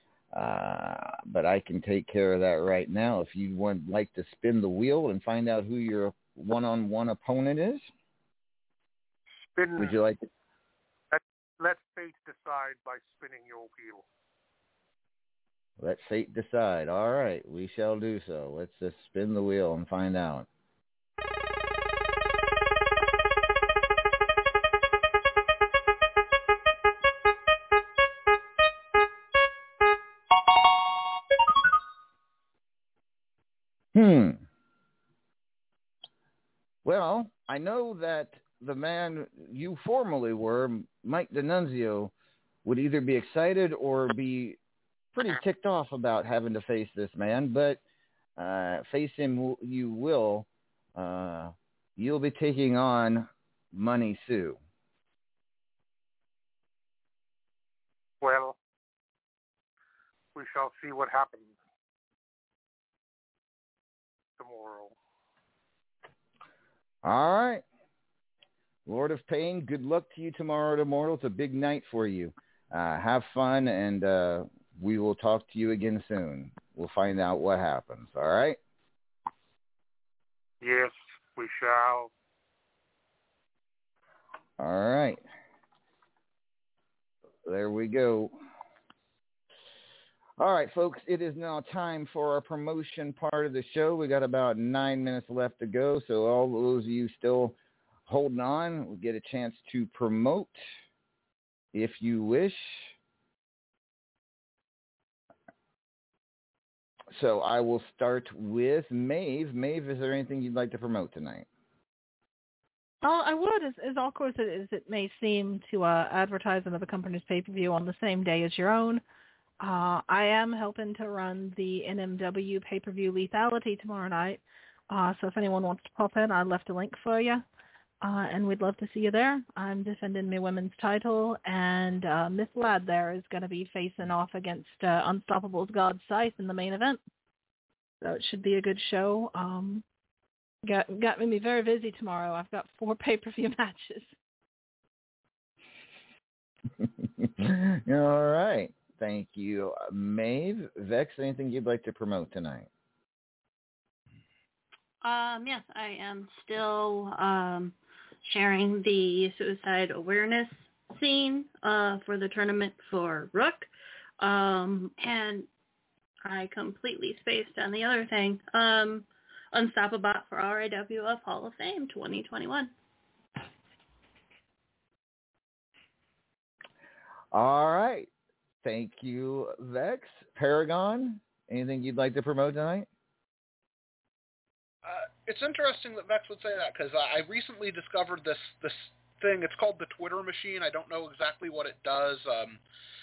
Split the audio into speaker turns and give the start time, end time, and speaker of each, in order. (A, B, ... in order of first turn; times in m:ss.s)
0:00.3-0:07.9 A
0:09.6-0:09.9 B
0:09.8-0:10.2 A
0:11.1-0:14.0 B
0:15.8-0:20.5 A
0:34.0-0:34.4 A
0:36.8-0:42.1 A
0:42.6-0:44.6 A
0:45.1-0:47.8 A
0:48.4-0:54.6 A
0:58.2-0:58.6 B
1:00.4-1:01.5 B
1:04.4-1:05.0 B
1:07.0-1:07.6 A
1:08.9-1:18.6 A
1:20.6-1:22.1 B
1:24.6-1:25.2 A
1:27.4-1:28.4 A
1:30.4-1:37.6 A
1:38.1-1:40.6 A
1:41.7-1:43.0 A
1:47.1-1:51.5 A
1:53.0-1:59.0 C
1:59.6-2:07.4 C
2:08.0-2:17.0 C
2:18.0-2:19.8 C
2:20.6-2:24.1 C
2:26.8-2:32.7 A
2:35.0-2:43.7 D
2:44.2-2:45.5 D
2:46.2-2:52.7 D
2:57.3-2:58.1 A
2:58.6-3:02.9 A
3:04.8-3:12.6 E